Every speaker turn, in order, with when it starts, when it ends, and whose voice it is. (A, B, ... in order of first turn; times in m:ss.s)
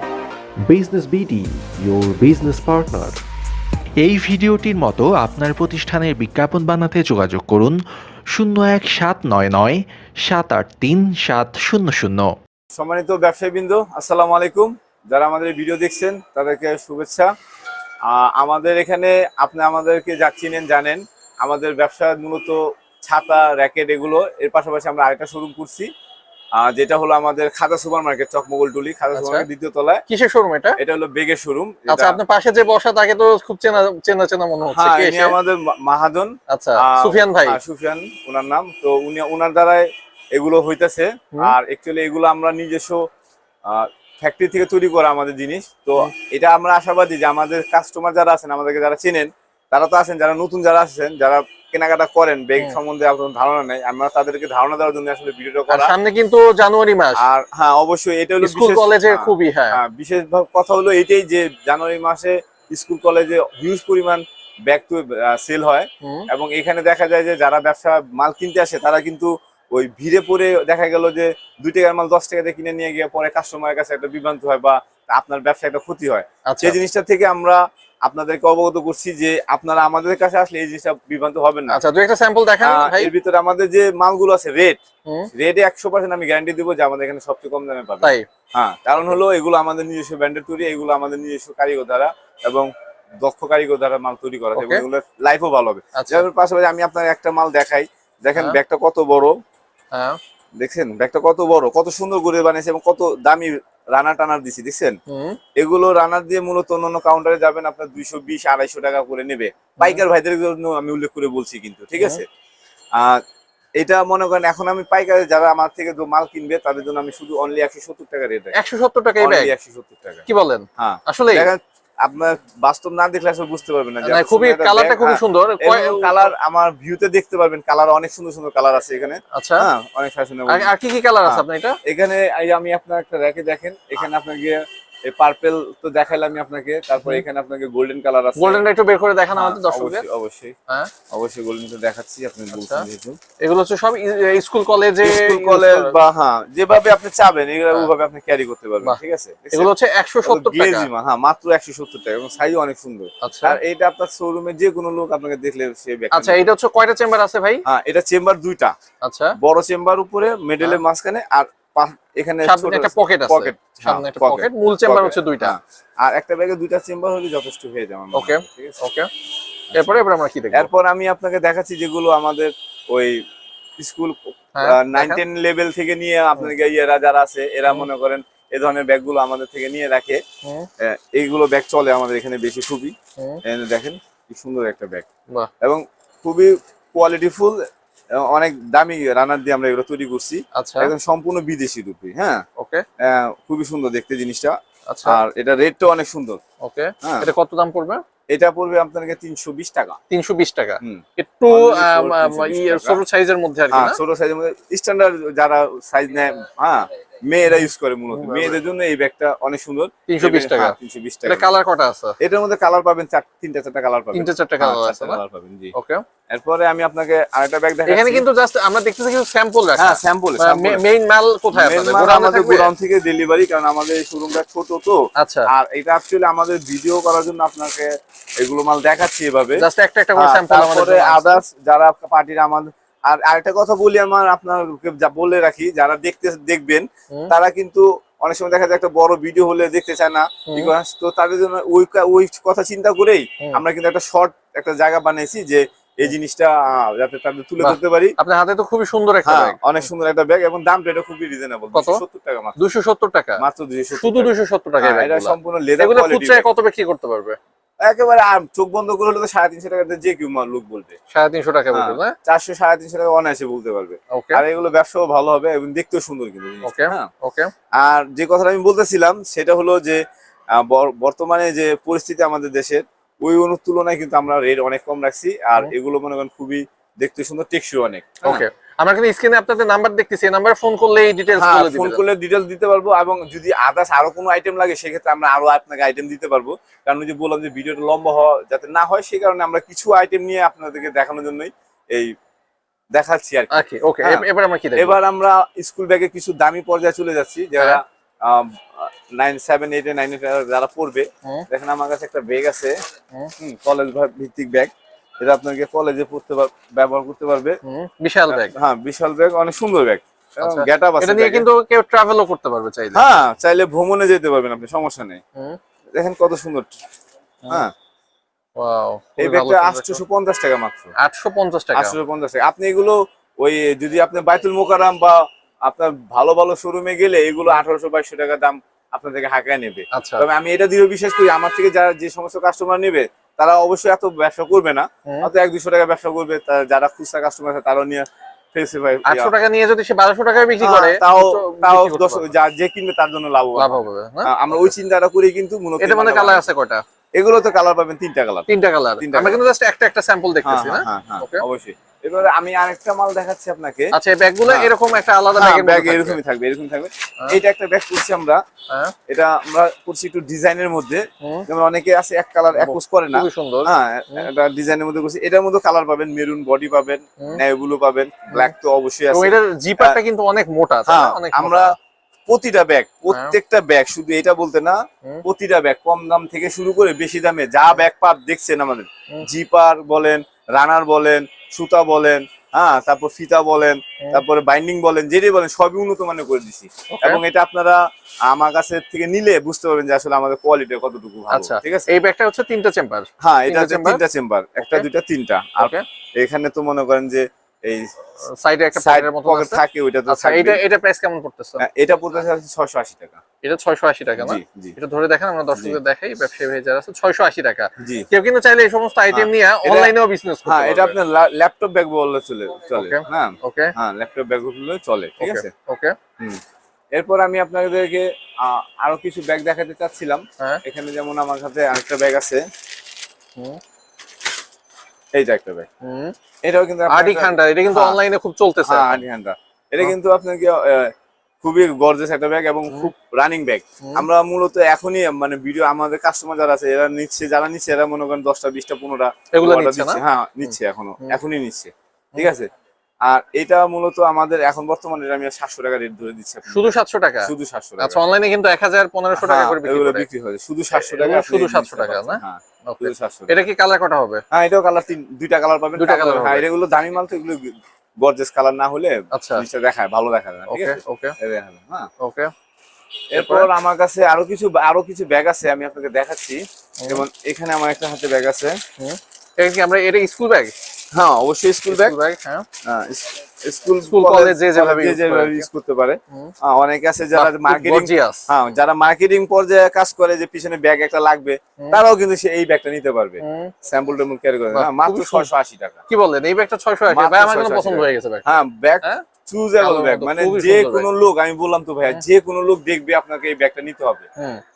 0:00.7-0:03.2 A
0:04.0-0:12.3 A
0:12.7-0:17.3 B
0:18.1-0:25.9 B
0:26.6-0:30.0 B
0:29.2-0:29.5 C
0:30.1-0:30.8 C
0:30.8-0:32.2 B
0:31.9-0:35.4 C
0:34.7-0:43.0 B
0:36.5-0:37.6 C
0:43.7-0:56.0 B
0:55.7-0:57.2 C
0:57.2-1:21.8 B
0:58.4-0:59.8 C
1:06.0-1:06.3 C
1:16.5-1:16.8 C
1:21.7-1:23.1 C
1:22.6-1:24.8 B
1:25.4-1:32.7 B
1:33.2-1:39.3 B
1:34.6-1:34.8 C
1:36.0-1:36.3 C
1:40.6-1:45.0 B
1:45.1-1:45.4 C
1:45.6-1:52.2 B
1:53.8-1:58.5 B
1:58.6-1:59.5 C
1:59.2-2:00.3 B
2:00.3-2:01.5 C
2:00.8-2:10.7 B
2:04.0-2:06.3 C
2:09.3-2:09.7 C
2:10.5-2:11.8 C
2:11.2-2:18.7 B
2:18.4-2:20.0 C
2:19.4-2:20.6 B
2:21.1-2:23.2 B
2:22.6-2:22.9 C
2:23.4-2:26.0 C
2:25.0-2:29.7 B
2:29.5-2:30.9 C
2:30.2-2:36.4 B
2:33.2-2:33.6 C
2:36.1-2:37.6 C
2:37.6-2:38.7 B
2:39.0-2:39.4 C
2:39.4-2:48.8 B
2:42.4-2:45.6 C
2:48.2-2:49.1 C
2:49.7-2:50.7 C
2:50.5-2:53.2 B
2:53.8-3:00.2 B
2:54.6-2:55.2 C
3:00.8-3:05.1 B
3:05.6-3:07.5 B
3:08.2-3:12.4 B
3:10.6-3:10.9 C
3:12.6-3:12.8 C
3:13.0-3:16.4 B
3:14.9-3:15.2 C
3:16.6-3:18.0 C
3:17.0-3:17.3 B
3:18.3-3:20.0 B
3:20.1-3:24.0 C
3:20.8-3:23.0 B
3:23.7-3:31.5 B
3:27.5-3:28.6 C
3:30.1-3:32.2 C
3:32.2-3:35.7 B
3:34.1-3:35.2 C
3:35.7-3:36.0 C
3:36.3-3:38.3 B
3:37.9-3:42.7 C
3:39.8-3:40.8 B
3:41.5-3:47.9 B
3:45.2-3:45.5 C
3:48.4-3:49.6 B
3:49.6-3:51.4 C
3:50.2-4:08.2 B
4:07.6-4:09.8 C
4:09.2-4:12.6 B
4:11.7-4:12.0 C
4:12.6-4:13.4 C
4:13.4-4:16.4 B
4:14.0-4:17.4 C
4:17.8-4:21.0 B
4:21.1-4:22.1 C
4:21.7-4:27.1 B
4:24.1-4:24.4 C
4:26.6-4:27.5 C
4:27.8-4:30.0 B
4:30.6-4:38.4 B
4:38.2-4:42.0 C
4:41.4-4:52.1 B
4:52.9-4:54.3 B
4:53.5-4:55.0 C
4:54.8-5:02.8 B
5:03.4-5:07.6 B
5:07.7-5:08.5 C
5:08.3-5:11.5 B
5:10.4-5:13.0 C
5:12.9-5:15.2 B
5:16.0-5:16.7 B
5:18.6-5:20.0 C
5:19.2-5:20.9 B
5:21.0-5:22.0 C
5:21.8-5:39.3 B
5:29.9-5:30.3 C
5:39.0-5:42.3 C
5:40.6-5:46.4 B
5:43.6-5:44.7 C
5:45.8-5:46.8 C
5:47.2-5:48.5 B
5:48.5-5:51.4 C
5:49.0-5:49.4 B
5:50.4-5:53.9 B
5:53.9-5:56.2 C
5:54.5-5:58.4 B
5:59.1-6:10.0 B
6:02.6-6:04.3 C
6:09.1-6:11.8 C
6:10.9-6:11.8 B
6:12.3-6:31.9 B
6:13.1-6:13.4 C
6:26.9-6:27.2 C
6:31.3-6:34.0 C
6:33.2-6:37.9 B
6:35.6-6:35.8 C
6:38.2-6:41.6 C
6:38.8-6:40.6 B
6:41.6-6:43.2 B
6:43.4-6:51.0 C
6:44.2-6:44.8 B
6:47.8-6:48.1 B
6:49.1-6:49.9 B
6:50.5-6:55.5 B
6:52.7-6:53.7 C
6:55.2-6:56.0 C
6:56.9-7:02.4 B
7:05.1-7:05.7 B
7:05.8-7:06.2 C
7:06.4-7:08.0 B
7:06.9-7:09.0 C
7:08.7-7:22.5 B
7:13.8-7:14.1 C
7:19.3-7:21.2 C
7:23.1-7:28.0 B
7:26.5-7:30.1 C
7:29.1-7:33.4 B
7:30.8-7:34.2 C
7:34.3-7:41.9 B
7:35.8-7:36.5 C
7:39.1-7:39.5 C
7:40.5-7:41.1 C
7:42.0-7:42.3 C
7:43.1-7:48.6 B
7:43.1-7:43.5 C
7:48.8-7:50.5 C
7:50.9-7:52.0 B
7:51.7-7:52.4 C
7:52.6-8:05.8 B
7:53.8-7:55.5 C
7:57.2-7:58.3 C
8:03.2-8:03.5 C
8:04.5-8:05.3 C
8:05.9-8:09.1 C
8:06.9-8:14.1 B
8:09.6-8:10.9 C